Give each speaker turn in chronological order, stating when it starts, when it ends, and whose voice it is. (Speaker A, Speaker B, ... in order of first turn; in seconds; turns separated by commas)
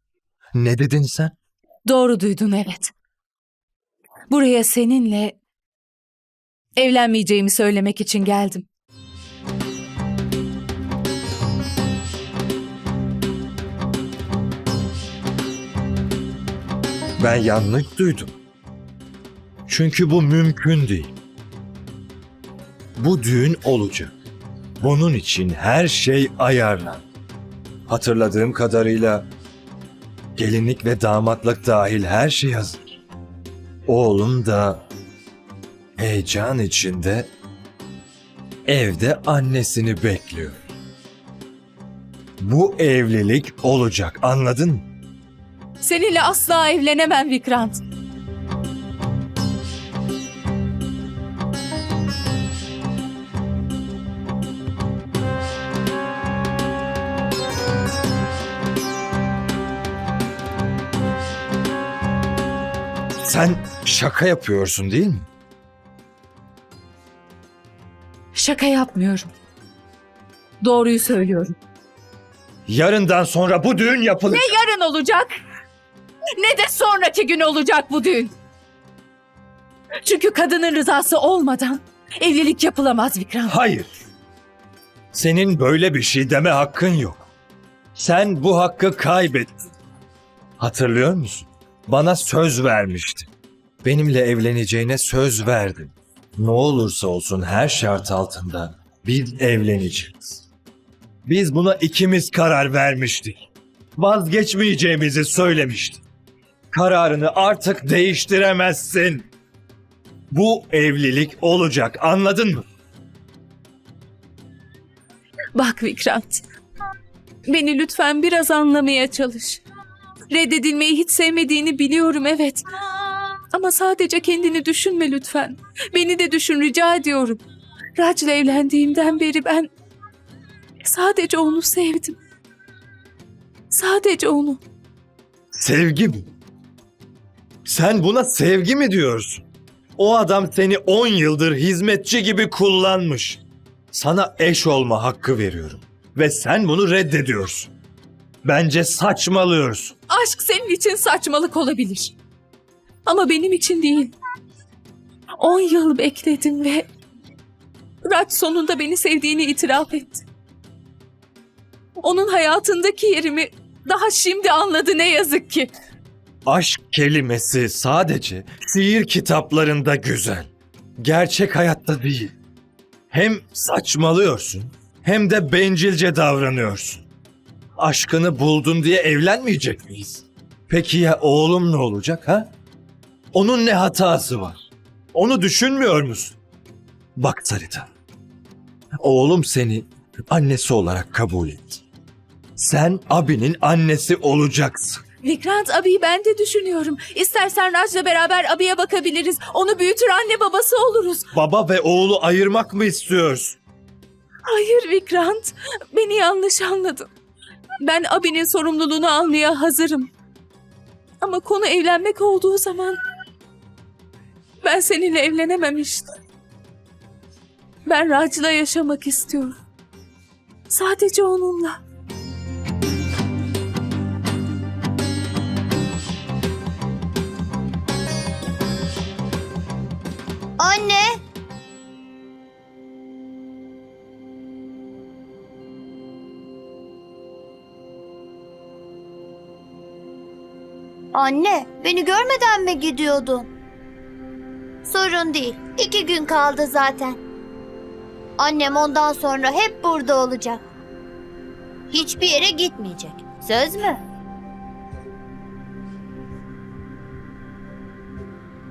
Speaker A: 0.5-1.4, Speaker B: 1.9-2.9, Speaker B: 4.3-5.4, Speaker B: 6.8-8.7, Speaker A: 17.2-18.3, Speaker A: 19.6-21.1, Speaker A: 23.0-24.1, Speaker A: 24.8-27.0, Speaker A: 27.9-29.3, Speaker A: 30.4-32.8, Speaker A: 33.9-34.8, Speaker A: 36.0-37.3, Speaker A: 38.6-40.6, Speaker A: 42.4-44.9, Speaker B: 45.8-47.8, Speaker A: 63.2-65.3, Speaker B: 68.3-69.3, Speaker B: 70.6-71.5, Speaker A: 72.7-74.5, Speaker B: 74.3-75.3, Speaker B: 76.4-78.3, Speaker B: 80.0-83.5, Speaker A: 83.5-83.9, Speaker A: 85.1-87.3, Speaker A: 87.9-89.5, Speaker A: 90.6-93.3, Speaker A: 93.8-100.4, Speaker A: 101.2-106.0, Speaker A: 106.7-109.3, Speaker A: 110.3-112.7, Speaker B: 115.5-116.4, Speaker B: 117.5-119.6, Speaker B: 120.3-122.7, Speaker B: 123.5-127.4, Speaker B: 128.0-129.7, Speaker B: 130.8-132.2, Speaker B: 133.7-134.6, Speaker A: 135.5-136.3, Speaker A: 137.6-139.4, Speaker A: 140.0-143.4, Speaker A: 143.9-147.7, Speaker A: 148.4-149.9, Speaker B: 150.1-152.1, Speaker B: 153.1-154.1, Speaker B: 155.4-156.9, Speaker B: 158.1-160.2, Speaker B: 162.0-165.7, Speaker A: 166.4-172.3, Speaker A: 173.1-177.0, Speaker A: 177.8-182.5, Speaker A: 183.3-184.6, Speaker A: 185.1-186.3, Speaker A: 187.2-187.9, Speaker A: 189.0-191.8, Speaker A: 192.6-195.0, Speaker B: 195.2-201.3, Speaker A: 201.3-203.6, Speaker B: 204.4-207.1, Speaker B: 207.8-210.1, Speaker B: 211.2-213.0, Speaker B: 214.6-216.1, Speaker B: 217.9-219.6, Speaker B: 220.7-221.8, Speaker C: 230.6-231.2, Speaker C: 241.1-243.5, Speaker C: 244.8-247.2, Speaker C: 248.4-250.6, Speaker C: 251.9-254.0